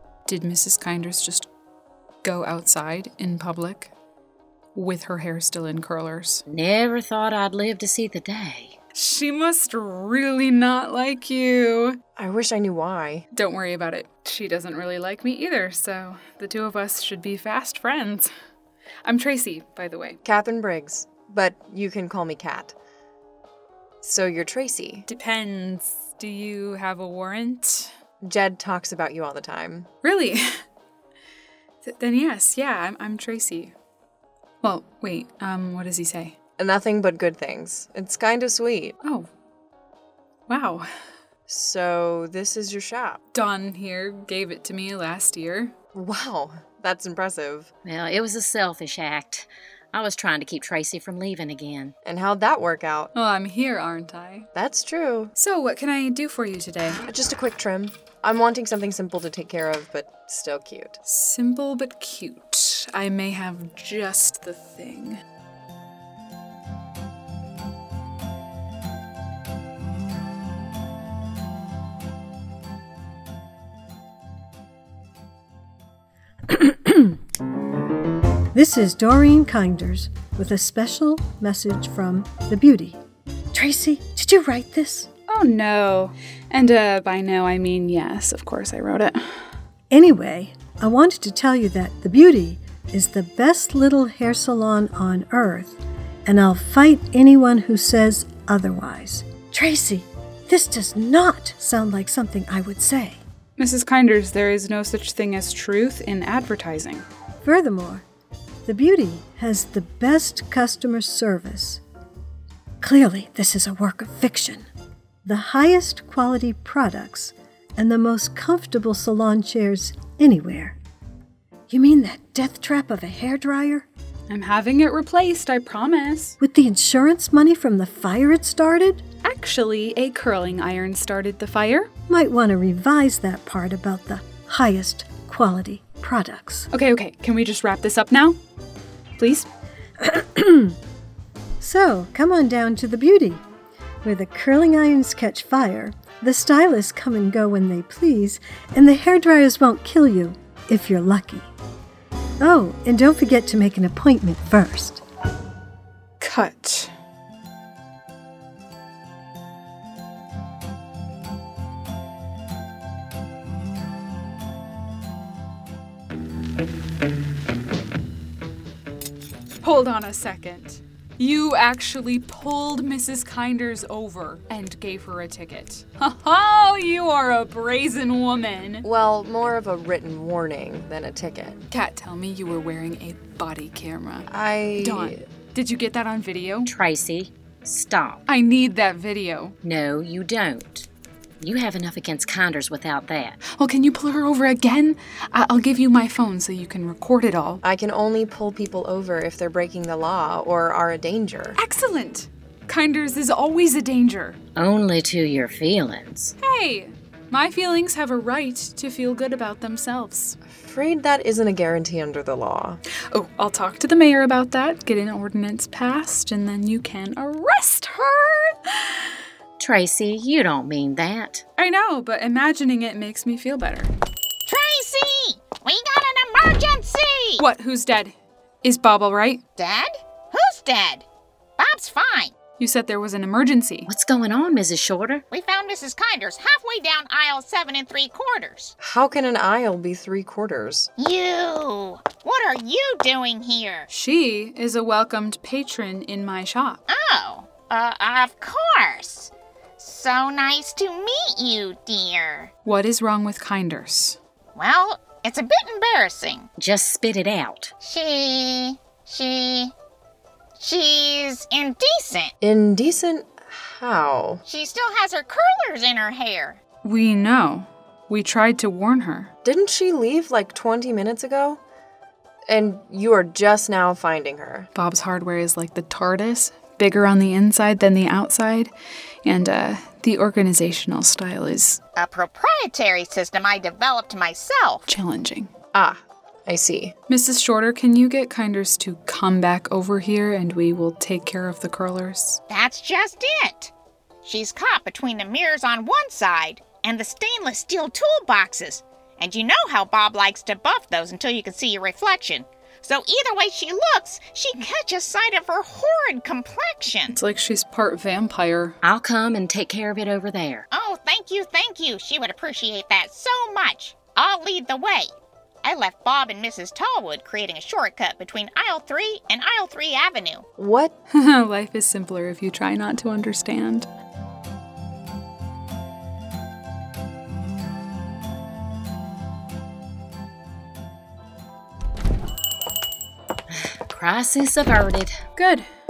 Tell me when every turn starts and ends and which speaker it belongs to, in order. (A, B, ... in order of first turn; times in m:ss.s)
0:00.2-0:01.5 A
0:02.2-0:03.9 A
0:04.7-0:06.4 A
0:06.5-0:08.7 B
0:08.9-0:12.0 A
0:12.2-0:13.2 C
0:13.3-0:18.3 A
0:19.0-0:20.2 A
0:20.2-0:22.7 C
0:24.0-0:25.0 C
0:25.0-0:27.9 A
0:28.2-0:29.9 C
0:30.0-0:30.6 A
0:31.8-0:33.7 A
0:34.6-0:36.4 A
0:36.6-0:39.0 C
0:39.0-0:39.3 A
0:40.5-0:40.9 A
0:41.5-0:43.2 C
0:43.3-0:45.7 A
0:45.9-0:47.7 C
0:47.8-0:51.9 B
0:52.0-0:53.1 C
0:53.1-0:54.5 A
0:54.5-0:55.3 C
0:55.4-0:57.0 A
0:57.1-1:01.0 C
1:01.0-1:05.2 A
1:16.5-1:17.2 D
1:18.5-1:23.0 D
1:23.5-1:25.1 D
1:25.3-1:29.4 A
1:29.9-1:43.2 D
1:43.6-1:47.0 A
1:47.4-1:48.0 D
1:48.6-1:51.8 D
1:52.8-1:54.7 D
1:55.2-2:00.8 D
2:01.7-2:03.9 D
2:04.3-2:06.4 A
2:06.4-2:09.0 D
2:09.2-2:11.9 A
2:12.1-2:16.7 D
2:16.7-2:18.4 A
2:19.2-2:19.5 A
2:20.0-2:20.8 D
2:21.6-2:23.4 D
2:24.0-2:31.5 D
2:32.4-2:35.0 D
2:36.2-2:36.9 A
2:49.6-2:58.8 A
2:58.8-3:01.6 C
3:01.7-3:06.7 A
3:04.3-3:05.1 C
3:06.6-3:08.2 B
3:08.3-3:09.6 A
3:09.6-3:10.9 B
3:11.4-3:13.4 B
3:13.4-3:17.6 A
3:17.6-3:21.6 C
3:21.6-3:24.4 A
3:24.6-3:26.4 B
3:26.4-3:30.4 A
3:30.6-3:32.8 C
3:33.1-3:39.1 A
3:39.6-3:41.4 B
3:41.6-3:43.9 A
3:44.4-3:47.4 E
3:47.4-3:49.4 A
3:49.6-3:51.0 E
3:51.6-3:52.3 E
3:52.6-3:53.9 A
3:53.9-3:55.2 B
3:55.3-3:58.7 E
3:58.8-4:00.9 C
4:01.0-4:03.9 E
4:03.9-4:06.8 A
4:06.9-4:12.5 E
4:12.6-4:14.2 A
4:14.5-4:16.5 E
4:16.6-4:17.7 B
4:17.8-4:19.7 E
4:20.6-4:22.3 E
4:22.4-4:24.4 C
4:24.4-4:26.6 E
4:26.8-4:29.3 A
4:29.4-4:31.6 C
4:32.5-4:34.7 C
4:34.7-4:38.7 A
4:39.2-4:41.8 A
4:42.0-4:44.8 E
4:44.9-4:45.5 A
4:45.7-4:46.9 C
4:47.1-4:52.4 A
4:52.5-4:53.7 E
4:54.2-5:07.2 E
5:07.1-5:08.8 A
5:08.8-5:10.7 B
5:10.7-5:20.4 E
5:20.6-5:20.9 C
5:21.1-5:23.9 A
5:33.5-5:35.2 B
5:35.4-5:35.6 A